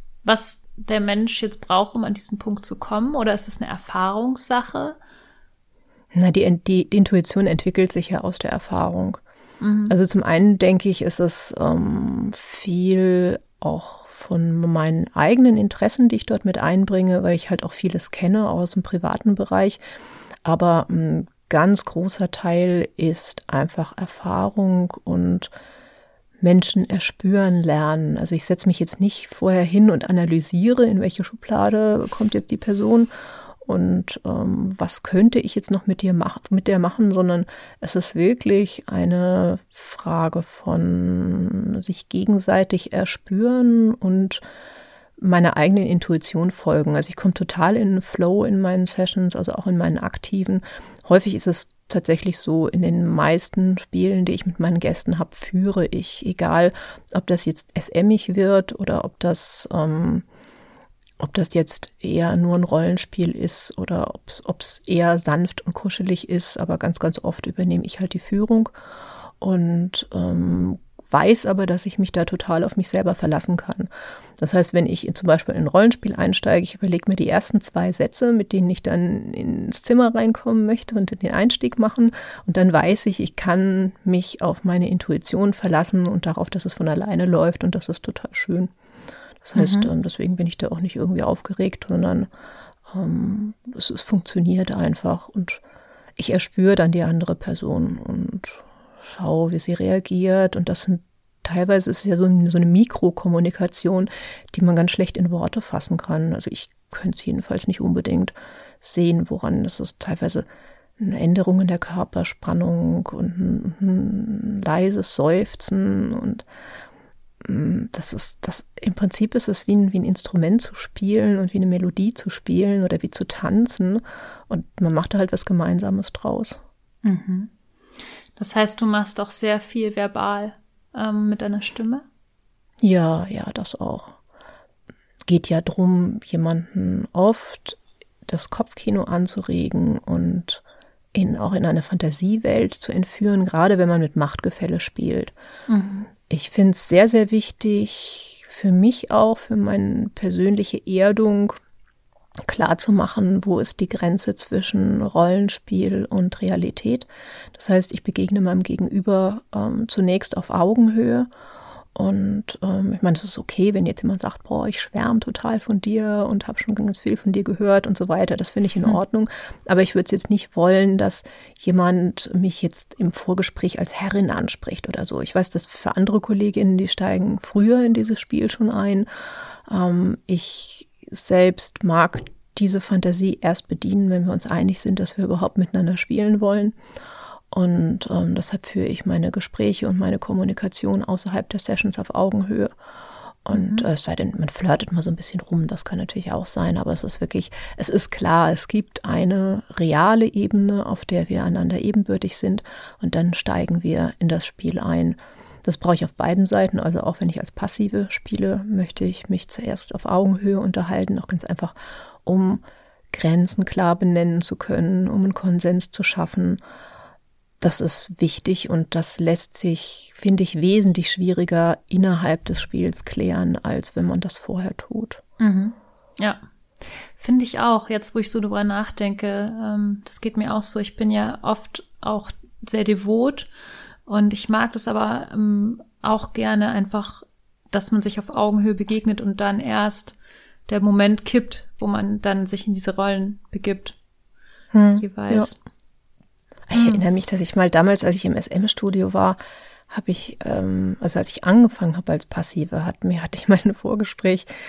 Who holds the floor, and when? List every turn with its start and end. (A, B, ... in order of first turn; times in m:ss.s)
0:00.2-0:05.0 A
0:06.1-0:09.2 B
0:09.6-0:09.9 A
0:09.9-0:19.8 B
0:20.4-0:25.5 B
0:26.4-0:33.1 B
0:33.6-0:44.4 B
0:45.2-1:00.2 B
1:01.2-1:08.7 B
1:09.4-1:28.7 B
1:29.4-1:32.3 B
1:29.6-1:29.9 A
1:32.9-1:35.6 B
1:36.2-1:50.4 B
1:51.0-1:56.4 B
1:57.4-2:06.6 B
2:07.0-2:07.5 A
2:08.4-2:12.0 A
2:12.8-2:14.2 B
2:15.2-2:20.6 B
2:21.1-2:25.3 B
2:25.7-2:26.1 A
2:26.3-2:31.6 B
2:32.4-2:41.3 B
2:41.9-2:59.1 B
2:59.7-3:06.8 B
3:07.5-3:12.7 B
3:13.4-3:31.7 B
3:13.5-3:13.9 A
3:32.2-3:32.6 B
3:33.1-3:36.6 B
3:37.6-3:45.2 B
3:45.4-3:46.4 A
3:47.1-3:53.5 A
3:54.0-4:00.1 A
4:00.7-4:03.9 A
4:04.7-4:05.5 B
4:05.0-4:05.5 A
4:06.7-4:09.4 B
4:06.7-4:07.0 A
4:09.9-4:14.5 B